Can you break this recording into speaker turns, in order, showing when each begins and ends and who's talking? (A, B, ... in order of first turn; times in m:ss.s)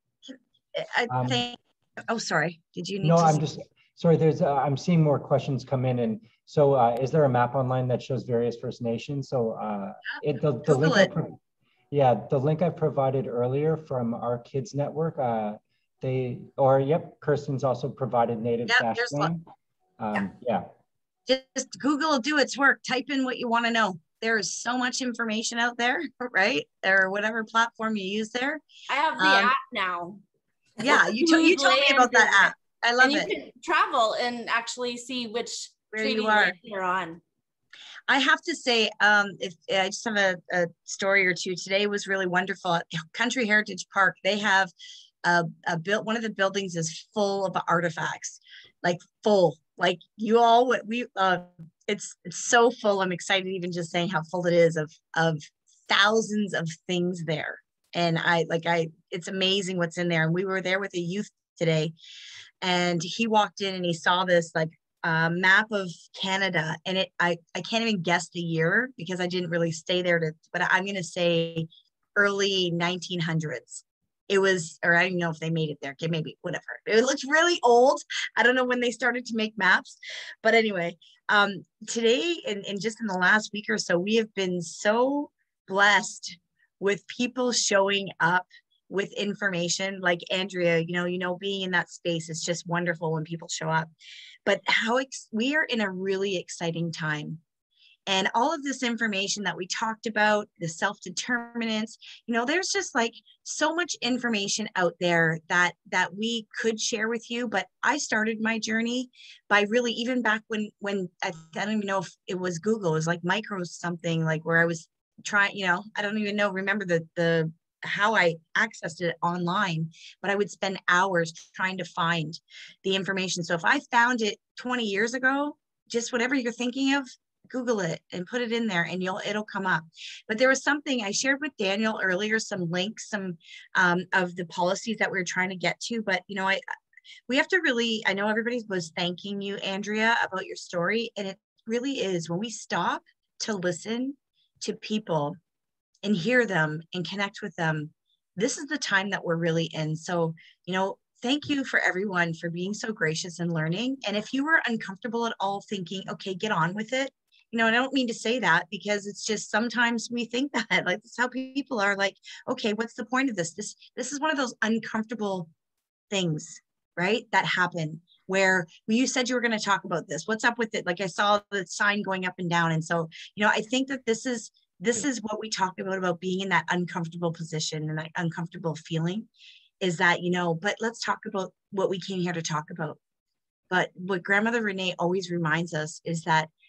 0:00.7-0:03.5 A
0:01.1-0:01.4 B
0:03.0-0:11.4 B
0:10.6-0:11.1 A
0:11.9-0:19.4 B
0:18.7-0:19.3 A
0:20.0-0:20.7 B
0:21.3-0:28.6 A
0:28.9-0:30.2 C
0:29.2-0:29.5 A
0:30.8-0:33.3 A
0:30.8-0:37.2 C
0:35.9-0:36.6 A
0:38.1-0:44.7 A
0:45.2-1:01.9 A
1:02.6-1:33.9 A
1:34.4-1:37.4 A
1:38.1-2:16.6 A
2:17.3-2:25.4 A
2:26.0-2:45.5 A
2:46.1-2:59.3 A
2:59.8-3:03.0 A
3:03.7-3:06.5 A